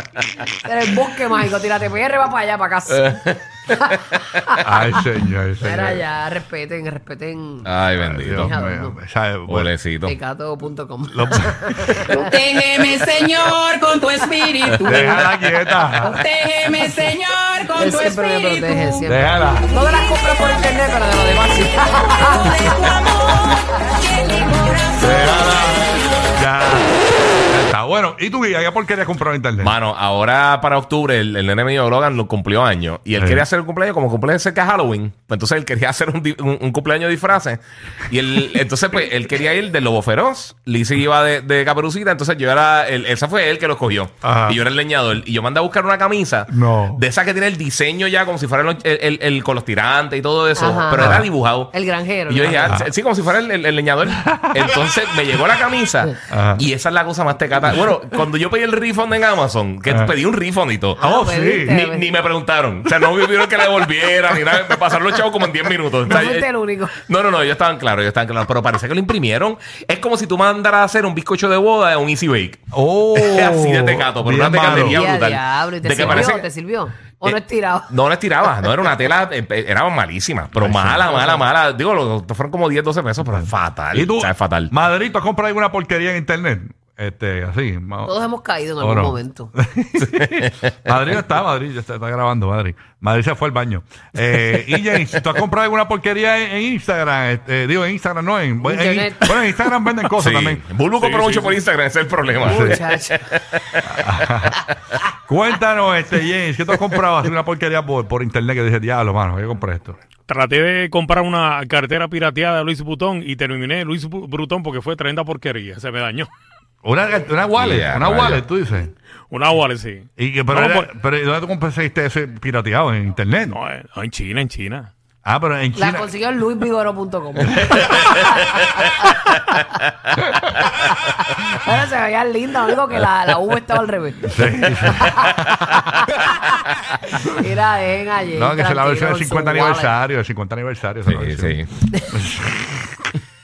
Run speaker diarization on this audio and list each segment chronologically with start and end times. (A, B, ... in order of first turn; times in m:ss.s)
0:00.6-0:04.6 A
0:02.9-0:03.4 B
0:04.6-0:06.0 C
0:05.6-0:07.7 A
0:07.6-0:08.5 B
0:08.0-0:09.7 C
0:08.3-0:09.0 A
0:09.5-0:10.1 B
0:10.0-0:12.3 A
0:11.0-0:12.2 C
0:12.1-0:15.3 D
0:14.8-0:16.2 C
0:16.0-0:19.0 D
0:17.7-0:22.8 A
0:19.0-0:19.7 C
0:22.2-0:25.9 D
0:25.0-0:29.7 C
0:29.6-0:51.7 B
0:33.2-0:33.4 C
0:44.2-0:44.6 C
0:46.5-0:47.0 C
0:50.6-0:52.8 A
0:51.0-0:51.3 C
0:52.3-1:01.0 B
0:54.2-0:54.8 C
0:56.3-0:56.6 C
0:59.9-1:00.2 C
1:01.0-1:02.2 A
1:01.0-1:01.8 C
1:01.7-1:06.5 B
1:06.0-1:07.0 A
1:07.0-1:16.4 B
1:12.7-1:15.0 C
1:14.7-1:17.9 A
1:16.0-1:16.2 C
1:17.2-1:24.7 B
1:20.5-1:21.2 C
1:23.2-1:28.2 C
1:28.0-1:29.5 A
1:28.8-1:40.6 C
1:30.0-1:30.6 B
1:34.5-1:35.0 B
1:38.6-1:39.3 A
1:40.1-1:44.1 B
1:41.0-1:41.6 E
1:42.4-1:42.8 C
1:42.4-1:43.2 A
1:43.8-1:44.6 C
1:45.3-1:50.0 C
1:50.3-1:56.3 E
1:56.8-1:58.9 C
1:57.5-1:58.4 B
1:59.3-2:00.9 E
2:00.2-2:03.6 C
2:03.5-2:04.9 E
2:05.2-2:06.0 C
2:05.7-2:09.4 A
2:07.6-2:07.9 C
2:11.3-2:14.4 A
2:14.2-2:15.8 C
2:15.0-2:15.3 A
2:16.1-2:16.4 A
2:17.1-2:19.9 A
2:18.3-2:23.1 C
2:21.1-2:21.7 B